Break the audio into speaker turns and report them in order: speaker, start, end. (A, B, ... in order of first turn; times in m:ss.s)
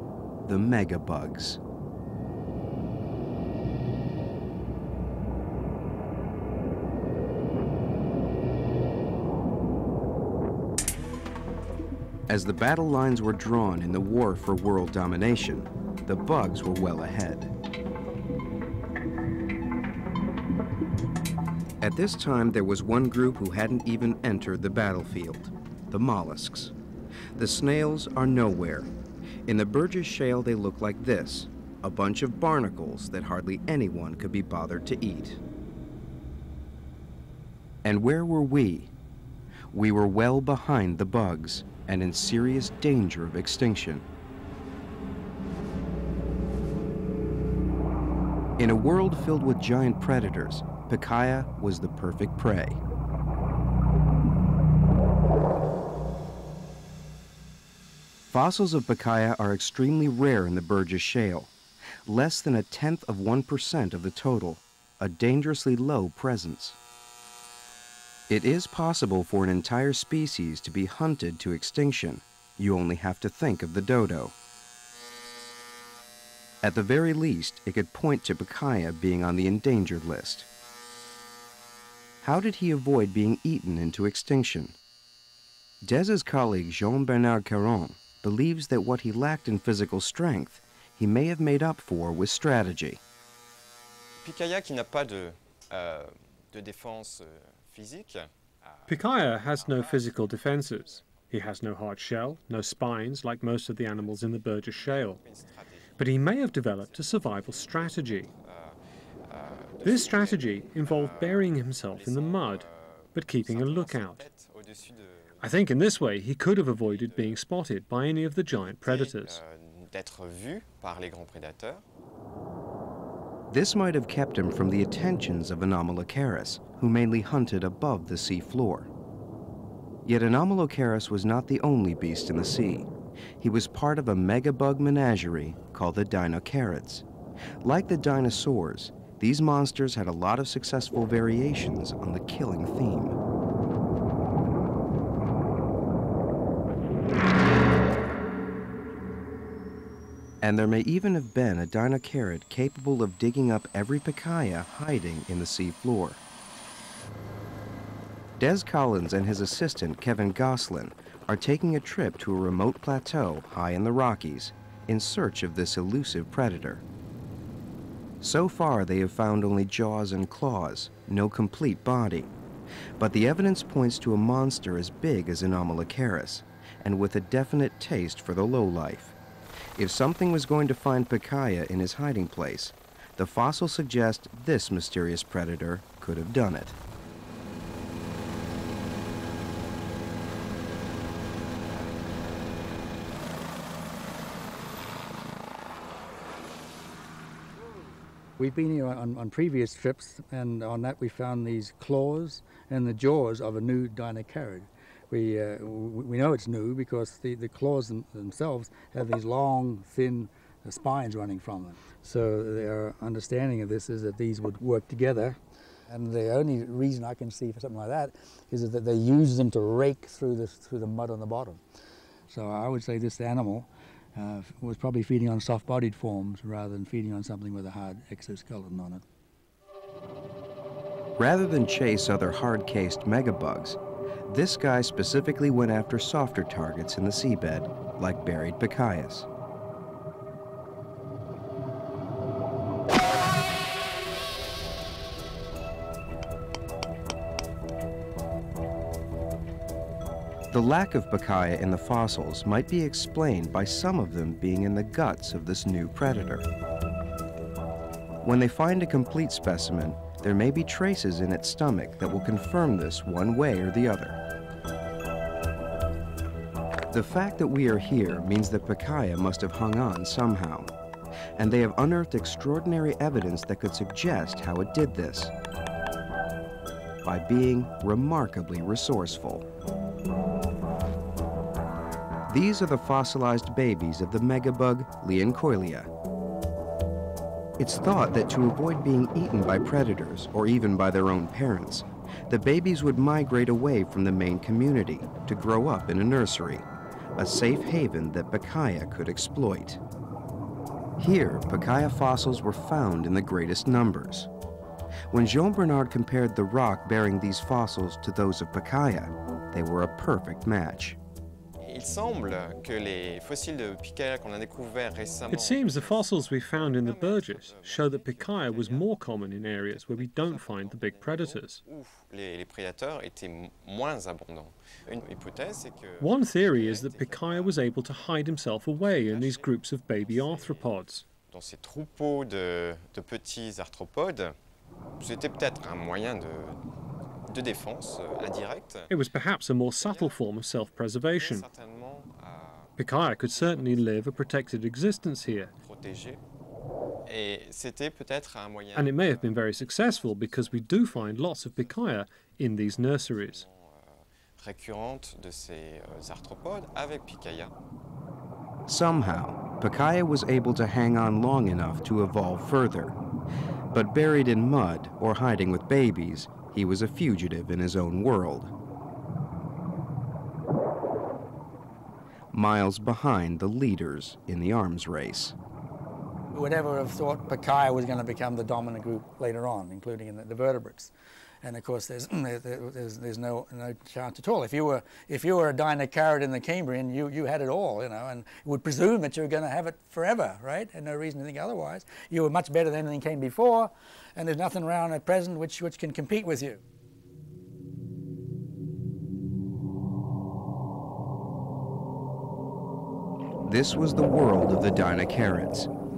0:00.4-0:01.6 A
0:12.3-0:17.5 A
0:21.8-0:26.7 A
0:27.4-0:28.9 A
0:29.4-0:35.4 A
0:37.8-0:38.9 A
0:39.7-0:44.0 A
0:48.6-0:52.8 A
0:58.3-1:01.5 A
1:02.0-1:06.8 A
1:08.3-1:14.3 A
1:16.6-1:20.5 A
1:22.2-1:24.7 A
1:25.8-1:33.0 A
1:34.2-1:41.4 B
1:38.9-1:45.2 C
1:43.9-1:55.9 B
1:46.0-1:48.3 C
1:49.8-1:54.2 C
1:55.4-1:59.4 C
1:56.7-1:57.4 B
1:58.6-2:01.8 B
2:03.5-2:08.9 A
2:10.0-2:12.9 A
2:13.4-2:17.0 A
2:17.6-2:23.2 A
2:30.4-2:36.2 A
2:38.4-2:46.8 A
2:48.2-2:52.3 A
2:53.0-2:59.2 A
2:59.8-3:06.8 A
3:18.4-3:41.6 D
3:42.3-3:49.0 D
3:51.2-3:59.3 A
4:10.5-4:16.4 A
4:18.2-4:24.2 A
4:26.9-4:30.7 A
4:31.4-4:35.3 A
4:37.0-4:39.4 A
4:42.3-4:45.9 A
4:47.6-4:56.6 A
4:57.2-4:59.8 A
5:01.0-5:04.3 A
5:05.1-5:11.0 A
5:11.6-5:18.9 B
5:15.3-5:21.6 C
5:19.6-5:27.6 B
5:26.0-5:31.0 C
5:28.7-5:34.4 B
5:35.0-5:36.6 B
5:37.3-5:38.9 B
5:38.9-5:41.4 C
5:39.8-5:40.2 B
5:41.0-5:44.5 B
5:42.8-5:45.5 C
5:45.6-5:46.2 B
5:47.1-5:51.9 B
5:48.7-5:53.4 C
5:52.6-5:57.5 B
5:58.7-6:03.0 A
6:03.7-6:08.5 A
6:12.3-6:15.3 A
6:16.3-6:36.6 D
6:43.4-6:45.7 A